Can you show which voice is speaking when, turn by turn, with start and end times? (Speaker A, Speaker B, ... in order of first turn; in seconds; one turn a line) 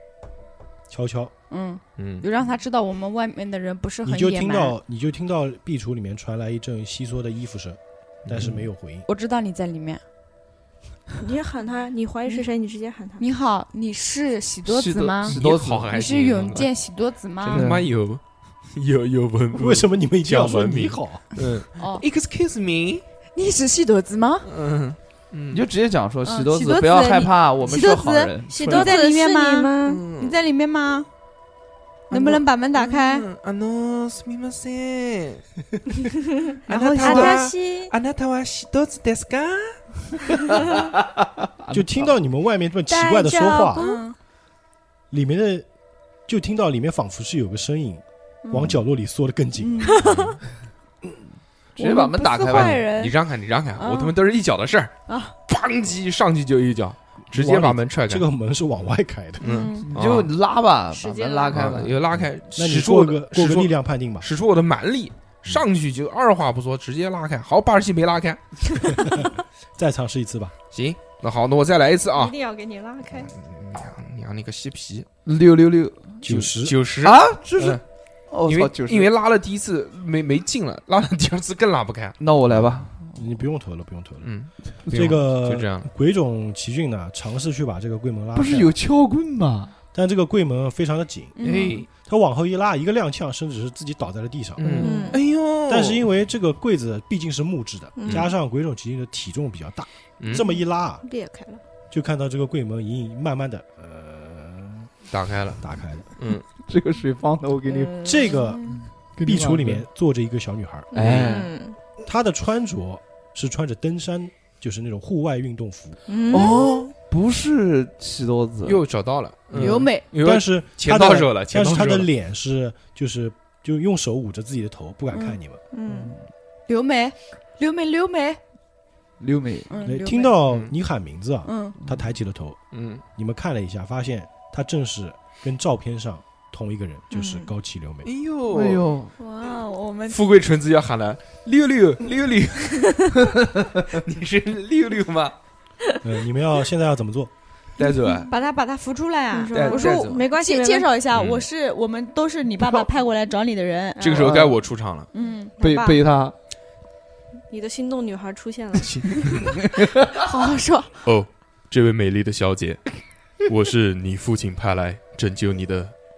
Speaker A: 0.9-1.3
Speaker B: 1.5-4.8
Speaker C: 2.0-2.2
Speaker A: 4.0-9.1
Speaker C: 8.3-8.6
Speaker B: 9.1-10.0
Speaker D: 11.2-13.2
Speaker B: 13.2-15.4
Speaker E: 14.7-15.9
Speaker C: 15.2-16.7
Speaker B: 15.9-17.7
Speaker C: 17.4-23.0
Speaker E: 17.5-17.9
Speaker A: 19.5-21.2
Speaker B: 21.8-22.0
Speaker B: 23.4-24.5
Speaker C: 24.4-25.6
Speaker E: 25.5-28.9
Speaker B: 26.2-31.1
Speaker D: 28.5-30.0
Speaker C: 29.9-30.4
Speaker B: 32.1-33.3
Speaker C: 32.1-35.5
Speaker C: 36.7-40.0
Speaker B: 36.7-37.5
Speaker D: 37.0-37.9
Speaker E: 37.0-37.3
Speaker E: 41.6-42.1
Speaker A: 41.7-43.9
Speaker D: 42.9-44.0
Speaker B: 43.8-44.1
Speaker A: 45.1-45.7
Speaker A: 46.3-50.2
Speaker B: 48.5-48.8
Speaker B: 49.6-50.0
Speaker E: 51.8-52.8
Speaker B: 51.8-53.1
Speaker C: 52.5-54.9
Speaker B: 53.8-54.1
Speaker B: 55.1-55.4
Speaker C: 55.5-58.3
Speaker A: 57.3-59.4
Speaker C: 59.4-60.3
Speaker B: 59.4-59.9
Speaker E: 59.8-62.0
Speaker B: 61.0-61.6
Speaker C: 61.5-69.2
Speaker A: 62.2-64.3
Speaker A: 69.0-70.5
Speaker C: 70.7-72.3
Speaker D: 72.1-73.3
Speaker C: 73.2-75.1
Speaker E: 75.3-76.3
Speaker A: 76.2-76.8
Speaker C: 76.3-77.8
Speaker E: 77.0-79.1
Speaker C: 78.5-82.2
Speaker E: 82.2-83.3
Speaker A: 82.5-84.3
Speaker C: 84.2-85.9
Speaker A: 84.9-88.8
Speaker E: 88.3-89.7
Speaker A: 89.9-94.7
Speaker B: 91.4-91.8
Speaker C: 91.4-91.9
Speaker C: 94.6-96.0
Speaker E: 94.7-95.1
Speaker D: 94.8-95.2
Speaker B: 94.8-95.1
Speaker A: 95.7-101.0
Speaker D: 98.0-98.3
Speaker D: 101.0-101.6
Speaker A: 101.9-104.9
Speaker C: 105.1-105.6
Speaker A: 105.6-106.1
Speaker C: 106.2-106.4
Speaker E: 106.6-108.2
Speaker D: 107.7-108.5
Speaker A: 108.0-110.9
Speaker B: 108.3-108.8
Speaker E: 108.8-109.8
Speaker D: 110.9-111.8
Speaker C: 111.0-111.4
Speaker E: 111.0-111.5
Speaker A: 112.0-116.0
Speaker D: 116.1-116.9
Speaker E: 116.3-118.8
Speaker C: 118.6-122.1
Speaker B: 119.6-120.1
Speaker A: 120.1-125.6
Speaker B: 125.1-125.4
Speaker D: 125.7-126.2
Speaker E: 125.9-126.2
Speaker B: 126.7-128.4
Speaker E: 129.2-129.7
Speaker B: 129.7-130.3
Speaker A: 129.8-132.6
Speaker B: 131.5-131.8
Speaker C: 132.7-133.0
Speaker A: 133.2-138.1
Speaker D: 137.1-137.5
Speaker C: 138.0-138.9
Speaker E: 138.5-139.1
Speaker B: 139.2-140.2
Speaker C: 140.1-143.3
Speaker C: 143.8-145.3
Speaker A: 146.0-147.3
Speaker C: 147.8-148.3
Speaker B: 148.3-154.2
Speaker D: 149.3-150.9
Speaker C: 149.5-150.3
Speaker C: 151.1-151.5
Speaker D: 154.0-154.3
Speaker C: 154.0-155.1
Speaker E: 154.1-154.6
Speaker B: 155.1-155.5
Speaker D: 155.6-156.0
Speaker E: 155.6-156.3
Speaker D: 157.5-159.4
Speaker C: 158.8-159.5
Speaker E: 159.6-160.1
Speaker B: 160.2-160.9
Speaker C: 161.0-165.9